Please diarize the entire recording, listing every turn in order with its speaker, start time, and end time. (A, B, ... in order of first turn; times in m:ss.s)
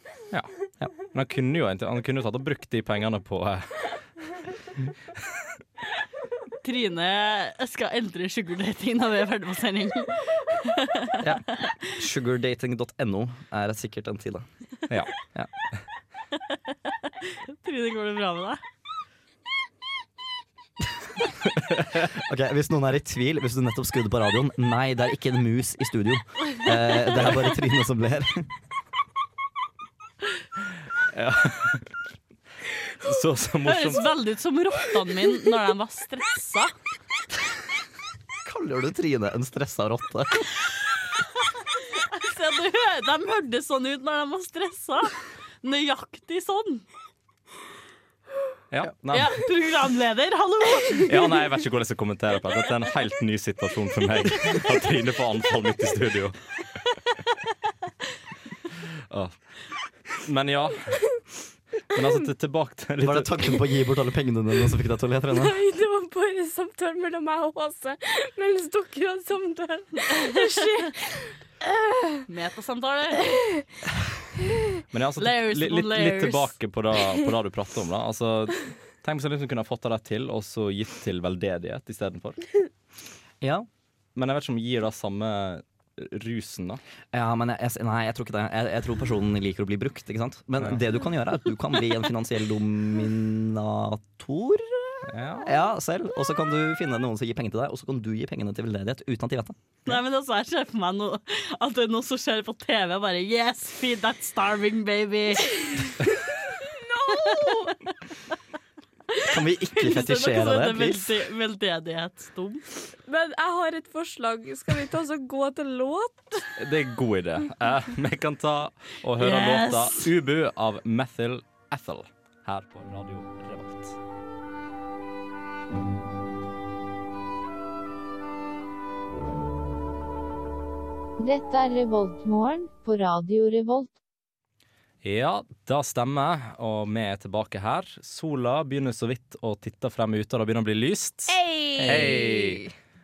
0:00.3-0:00.6 A
0:01.1-0:03.9 A
0:06.6-0:11.7 B
0:11.2-0:14.5 C
0:17.1-0:18.6 B
0:22.1-0:28.5 C
0:31.1-0:31.9 A
0:33.0-0:34.1 A
0:33.6-0:36.7 B
0:38.4-0:40.5 C
0:42.0-0:46.8 B
0:48.7-0:49.4 A
0:49.1-0:51.0 B
0:51.0-0:56.4 A
0:59.1-0:59.4 A
1:00.1-1:01.2 A
1:01.9-1:03.6 A
1:03.0-1:05.5 C
1:05.4-1:12.2 D
1:10.1-1:10.8 B
1:12.3-1:13.4 B
1:14.9-1:22.5 A
1:15.2-1:16.5 B
1:23.4-1:23.7 C
1:24.1-1:26.8 A
1:27.1-1:39.6 C
1:35.1-1:35.5 A
1:39.8-1:45.9 B
1:46.6-1:47.7 D
1:47.1-1:47.7 B
1:49.1-1:52.6 B
1:49.2-1:51.2 C
1:53.1-1:56.5 D
1:56.6-2:04.0 A
1:59.2-2:00.1 B
2:11.2-2:13.9 E
2:15.0-2:22.7 A
2:21.3-2:22.7 D
2:21.8-2:22.1 C